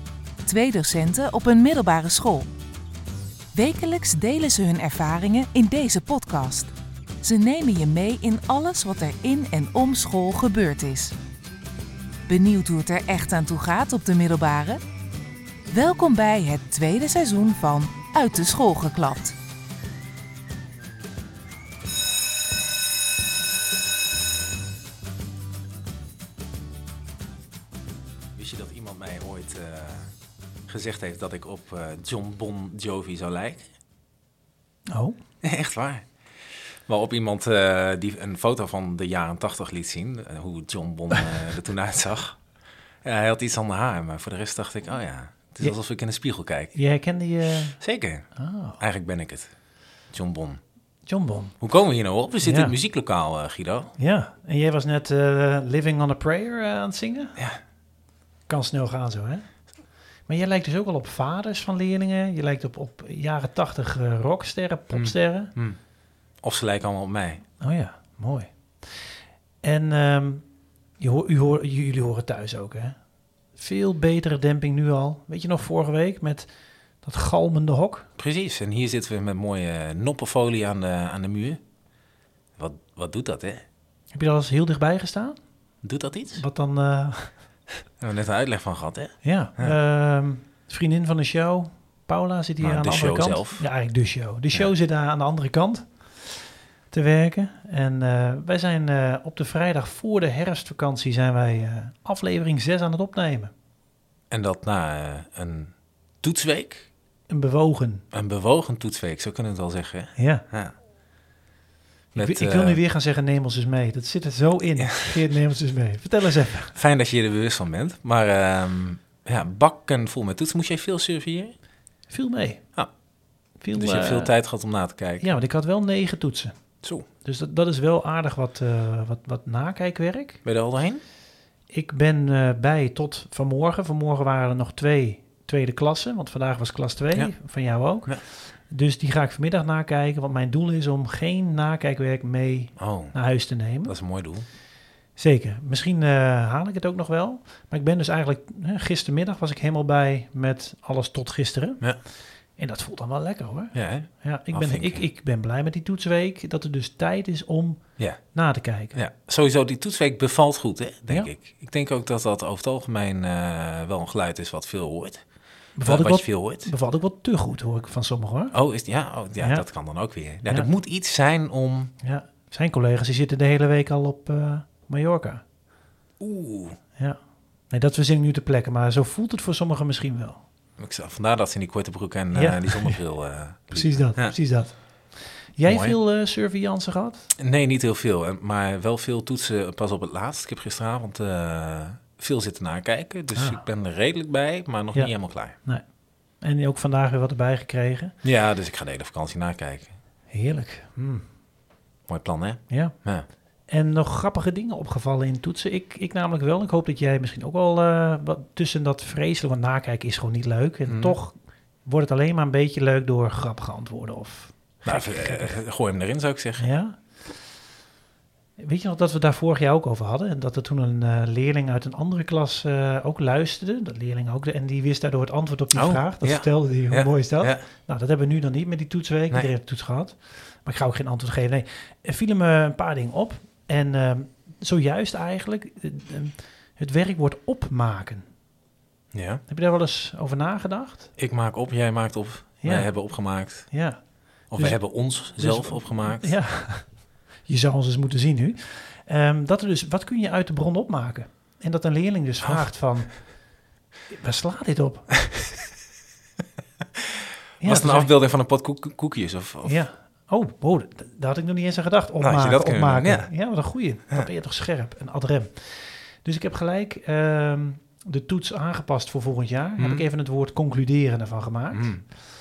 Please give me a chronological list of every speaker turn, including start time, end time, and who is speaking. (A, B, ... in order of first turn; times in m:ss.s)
0:00.4-0:02.5 A
0:03.5-0:11.1 A
0:12.3-0:14.8 A
0:15.7-0:19.3 A
0:28.4-0:30.1 B
0:30.7-0:33.6 B
0:34.9-0:35.2 C
0:35.4-0:36.0 B
0:36.8-0:42.4 B
0:43.0-0:46.8 B
0:46.7-0:47.8 C
0:47.8-0:48.3 B
0:48.3-0:48.8 C
0:48.8-0:49.5 B
0:50.1-0:50.6 B
0:51.0-0:51.6 C
0:51.6-0:53.9 B
0:52.4-0:52.8 C
0:54.0-0:57.4 C
0:58.5-0:59.5 C
1:00.3-1:05.5 C
1:04.9-1:05.8 B
1:06.4-1:07.4 B
1:07.6-1:08.5 C
1:09.6-1:10.4 C
1:11.0-1:13.0 C
1:13.5-1:16.5 C
1:17.0-1:18.1 C
1:18.2-1:21.6 B
1:22.6-1:23.6 B
1:24.1-1:25.4 C
1:25.8-1:26.4 B
1:26.3-1:27.3 C
1:28.0-1:29.7 B
1:29.2-1:43.5 C
1:32.6-1:33.6 B
1:44.3-1:46.9 B
1:47.3-1:48.0 C
1:48.1-1:50.7 B
1:50.2-1:50.4 C
1:52.1-1:52.8 B
1:52.1-1:56.7 C
1:54.8-1:55.1 B
1:56.7-2:01.5 B
2:02.1-2:02.6 C
2:03.6-2:04.3 C
2:03.7-2:05.4 B
2:05.2-2:06.6 C
2:07.2-2:10.4 C
2:10.4-2:11.0 B
2:11.7-2:24.0 C
2:22.8-2:23.2 B
2:23.8-2:24.4 B
2:25.2-2:31.9 C
2:32.6-2:39.0 C
2:33.7-2:35.0 B
2:38.9-2:45.2 B
2:45.8-2:48.6 C
2:45.8-2:46.7 B
2:48.5-2:51.9 B
2:49.4-2:49.6 C
2:50.4-2:50.7 C
2:52.0-2:55.4 C
2:56.2-2:56.8 B
2:57.7-3:00.4 C
3:00.8-3:04.3 B
3:02.3-3:03.0 C
3:03.7-3:07.3 C
3:05.6-3:06.0 B
3:07.4-3:15.5 B
3:13.3-3:13.6 C
3:14.9-3:15.8 C
3:16.4-3:18.2 C
3:18.2-3:19.9 B
3:20.3-3:21.2 C
3:22.1-3:23.2 B
3:22.7-3:23.0 C
3:23.7-3:35.6 C
3:30.9-3:31.2 B
3:34.8-3:36.7 B
3:36.6-3:37.0 C
3:38.6-3:58.3 C
3:45.7-3:47.6 B
3:59.1-3:59.4 B
3:59.5-4:01.1 C
4:01.2-4:03.7 B
4:02.6-4:13.3 C
4:04.5-4:06.4 B
4:14.1-4:15.2 C
4:17.6-4:18.1 C
4:17.6-4:19.8 B
4:19.6-4:32.0 C
4:22.2-4:23.3 B
4:29.8-4:30.0 B
4:31.7-4:32.0 B